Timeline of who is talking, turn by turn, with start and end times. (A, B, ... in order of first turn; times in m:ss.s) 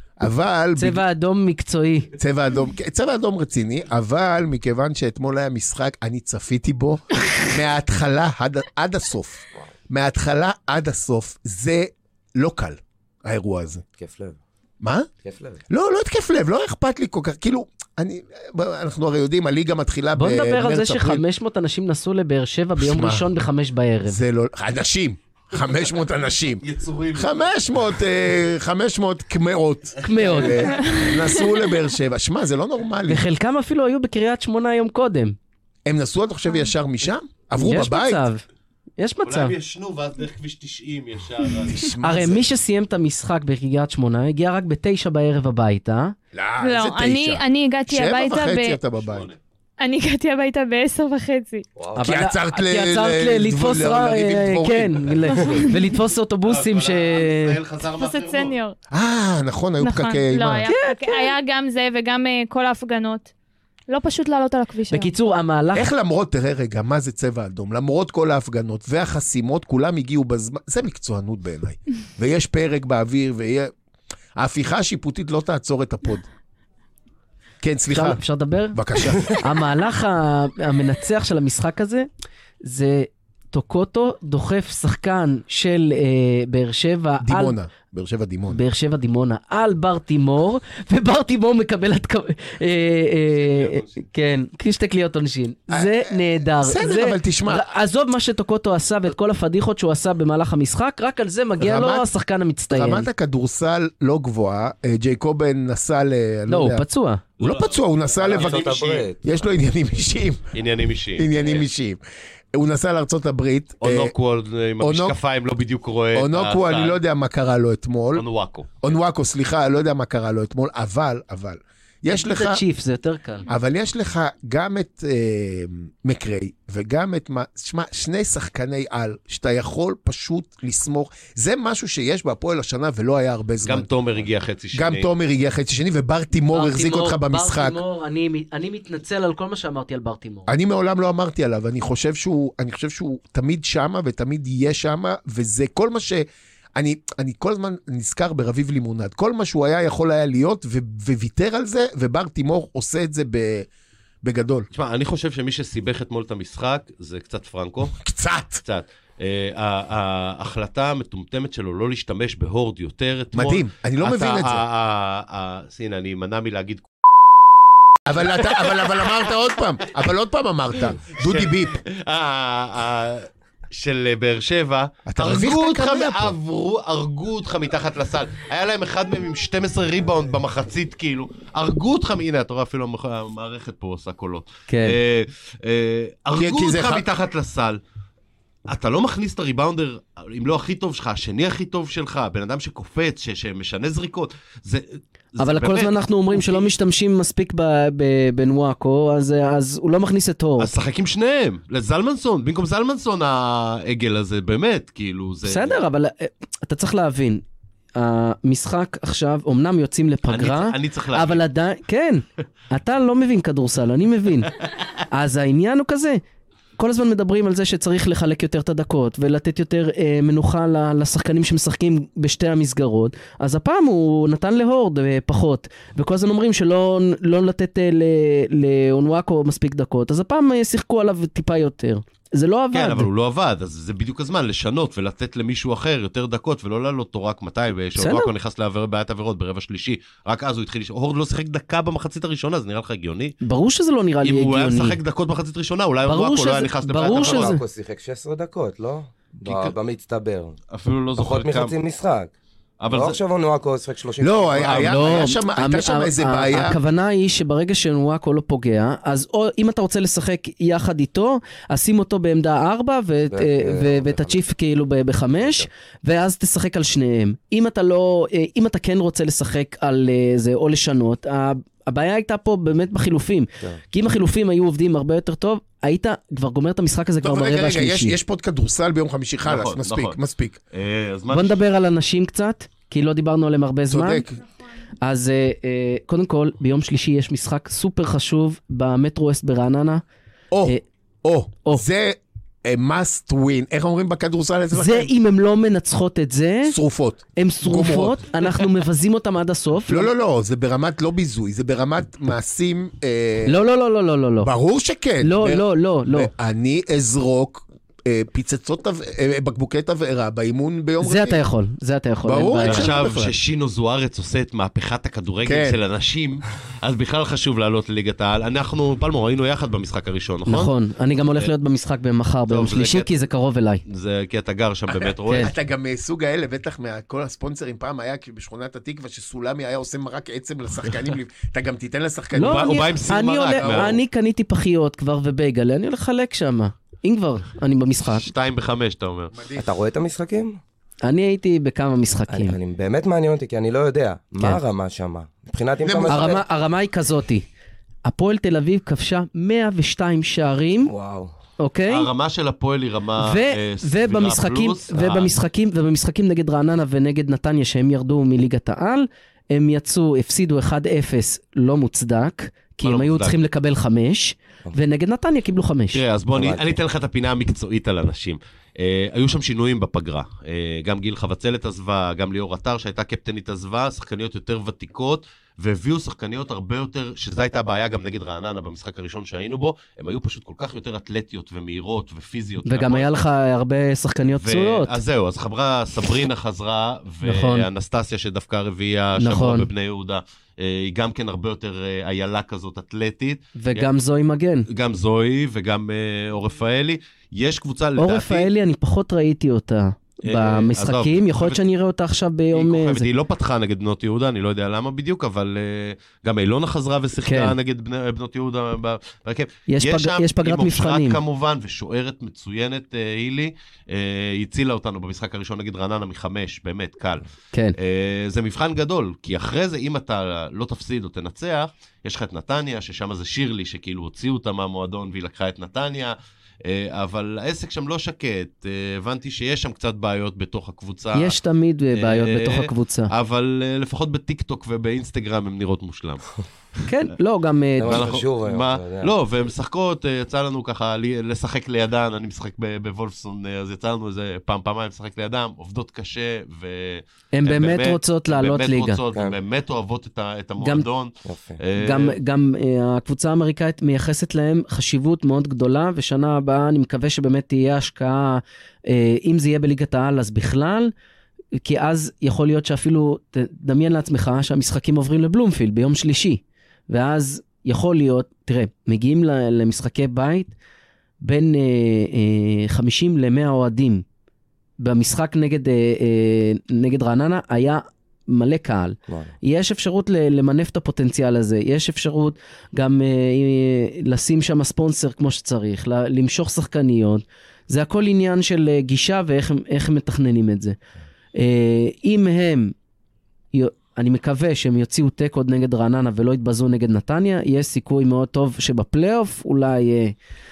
0:00.2-0:01.0 A
0:00.8-0:02.1 B
0:02.2-0:13.8 A
0:14.0-0:14.4 C
0:14.8-0:15.1 A
0:15.2-0:15.6 C
0:15.7-0:21.2 A
0:20.2-0:24.2 B
0:22.8-0:23.3 A
0:24.0-0:26.6 A
0:26.6-0:27.5 D
0:27.1-0:33.2 A
0:30.0-0:30.9 B
0:30.0-0:30.6 D
0:30.8-0:31.6 E
0:33.1-0:35.4 B
0:35.8-0:38.2 A
0:37.6-0:38.4 B
0:39.0-0:39.5 B
0:39.2-0:41.9 D
0:41.7-0:42.5 A
0:42.0-0:46.2 B
0:46.3-0:49.3 A
0:46.6-0:48.8 E
0:49.0-0:49.4 D
0:49.8-0:51.6 E
0:51.8-0:52.2 C
0:52.0-0:57.6 B
0:52.0-0:55.5 A
0:56.4-0:58.5 D
0:58.0-0:58.8 E
0:58.9-1:00.7 A
0:59.8-1:03.3 E
1:00.7-1:01.3 B
1:03.9-1:05.1 E
1:04.9-1:05.9 B
1:05.7-1:13.7 A
1:14.4-1:16.3 A
1:17.6-1:18.2 A
1:17.9-1:22.1 B
1:18.7-1:19.4 A
1:22.6-1:27.6 B
1:27.2-1:28.6 A
1:28.5-1:43.1 B
1:33.3-1:33.9 D
1:35.7-1:37.6 A
1:41.6-1:42.1 A
1:42.7-1:46.8 A
1:46.5-1:47.2 B
1:47.4-1:49.1 D
1:47.4-1:48.7 A
1:48.2-1:49.2 C
1:49.2-1:50.5 A
1:50.5-1:51.6 D
1:51.2-1:52.0 A
1:52.5-1:54.1 A
1:53.8-1:57.0 D
1:54.8-1:55.2 A
1:56.1-1:58.2 A
1:58.1-1:58.9 D
1:58.8-2:02.6 A
2:02.1-2:03.4 B
2:03.5-2:13.9 A
2:13.6-2:15.1 D
2:14.7-2:17.8 A
2:16.5-2:20.5 B
2:20.5-2:33.7 A
2:34.2-2:34.7 A
2:34.7-2:38.0 D
2:38.0-2:38.6 A
2:38.6-2:46.9 D
2:43.3-2:44.6 A
2:48.0-2:51.8 A
2:48.2-2:49.3 D
2:51.1-3:07.8 D
2:55.0-2:56.3 A
3:04.7-3:05.0 B
3:06.4-3:07.1 A
3:08.7-3:16.7 D
3:15.4-3:20.7 B
3:20.6-3:25.8 D
3:25.4-3:27.4 B
3:27.9-3:34.5 B
3:30.3-3:31.4 D
3:35.1-3:36.2 B
3:36.8-3:53.1 B
3:52.7-4:03.4 D
3:58.0-3:58.3 B
4:03.4-4:05.0 B
4:04.2-4:07.5 D
4:06.0-4:07.6 B
4:07.0-4:10.6 C
4:09.4-4:09.7 D
4:10.7-4:11.7 D
4:11.2-4:12.3 C
4:12.8-4:13.2 D
4:12.9-4:14.9 C
4:14.2-4:16.8 A
4:14.6-4:15.3 D
4:14.7-4:38.2 B
4:23.3-4:24.4 C
4:25.3-4:25.7 C
4:37.2-4:40.6 A
4:39.4-4:40.2 D
4:40.7-4:41.6 D
4:41.3-4:44.2 B
4:43.9-4:44.3 A
4:45.0-4:50.0 B
4:50.5-4:55.1 A
4:54.7-4:56.8 B
4:56.7-4:58.2 A
4:57.4-5:00.1 B
4:59.9-5:03.6 A
5:03.4-5:04.5 B
5:04.4-5:11.4 A
5:05.2-5:06.3 B
5:11.0-5:12.9 B
5:12.2-5:13.3 A
5:12.6-5:20.7 D
5:15.4-5:15.8 A
5:20.5-5:23.8 B
5:22.5-5:23.1 D
5:23.8-5:25.5 D
5:25.2-5:25.5 B
5:25.4-5:32.8 A
5:32.3-5:38.3 B
5:32.4-5:34.0 D
5:33.6-5:33.9 A
5:38.1-5:39.3 D
5:39.3-5:39.6 A
5:39.5-5:40.6 C
5:41.0-5:42.6 B
5:42.3-5:46.4 C
5:45.8-5:46.4 A
5:46.0-5:47.4 B
5:48.0-5:50.9 B
5:50.8-5:51.3 C
5:51.6-5:52.1 B
5:51.9-5:55.3 D
5:53.2-6:06.0 B
6:02.8-6:03.4 D
6:05.9-6:23.1 D
6:06.3-6:06.7 C
6:22.6-6:24.9 B
6:24.4-6:33.9 D
6:27.2-6:27.7 B
6:29.2-6:29.7 B
6:33.6-6:34.7 B
6:34.7-6:38.5 D
6:38.0-6:43.1 B
6:40.2-6:41.6 D
6:42.5-6:57.2 D
6:47.2-6:47.5 B
6:49.7-6:51.2 B
6:57.8-7:11.4 D
7:11.1-7:13.1 B
7:11.9-7:16.3 D
7:16.9-7:18.1 B
7:17.8-7:19.1 C
7:17.8-7:32.2 D
7:27.3-7:29.0 B
7:30.6-7:30.8 B
7:31.2-7:31.6 C
7:31.8-7:40.9 B
7:41.6-7:50.5 B
7:51.2-7:54.0 B
7:54.8-8:10.8 B
7:59.1-7:59.3 C
8:11.3-8:12.7 B
8:13.5-8:20.1 B